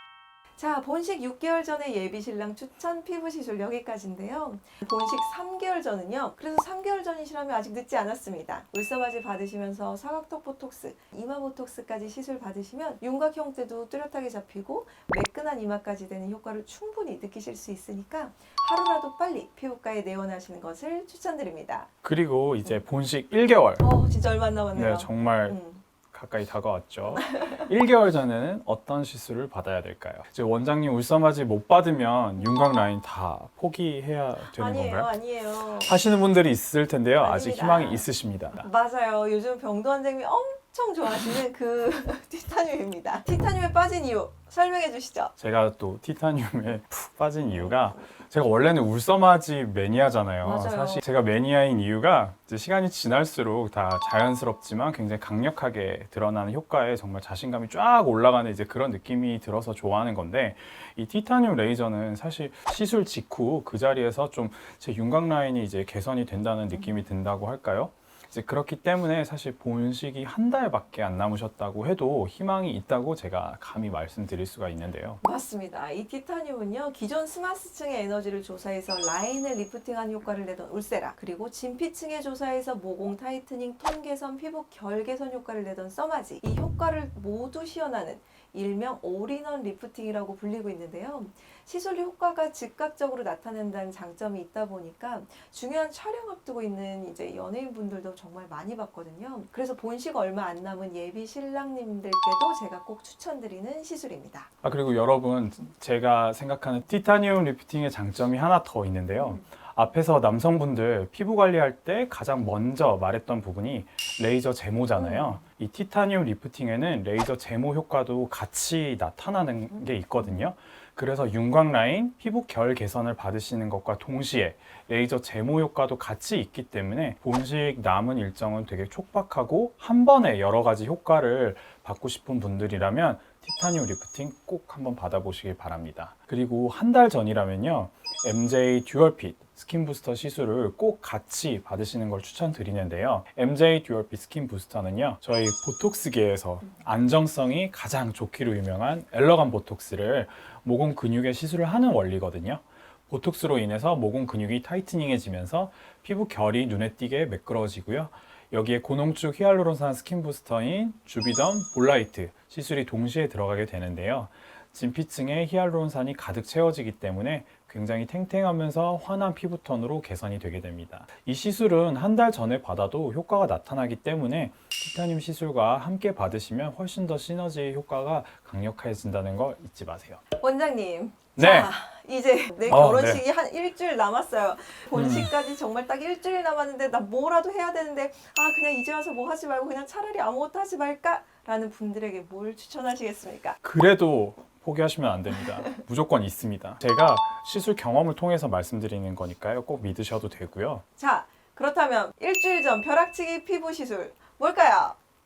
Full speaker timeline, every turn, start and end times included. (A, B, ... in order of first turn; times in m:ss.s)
0:00.6-0:21.9 A
0:22.0-0:23.9 B
0:23.8-0:25.8 A
0:24.7-0:25.6 B
0:26.1-0:38.7 B
0:27.2-0:27.6 A
0:34.4-0:36.0 A
0:37.2-0:38.1 A
0:38.6-0:45.3 A
0:45.4-1:15.2 B
0:47.5-0:48.1 A
0:50.4-0:51.0 A
1:06.7-1:07.0 A
1:15.2-1:44.5 A
1:44.6-3:00.2 B
1:49.2-1:49.4 A
1:55.0-1:55.4 A
3:00.4-3:13.6 A
3:01.4-3:01.7 B
3:02.7-3:03.2 B
3:04.9-3:05.3 B
3:13.6-3:20.8 B
3:21.0-3:25.0 A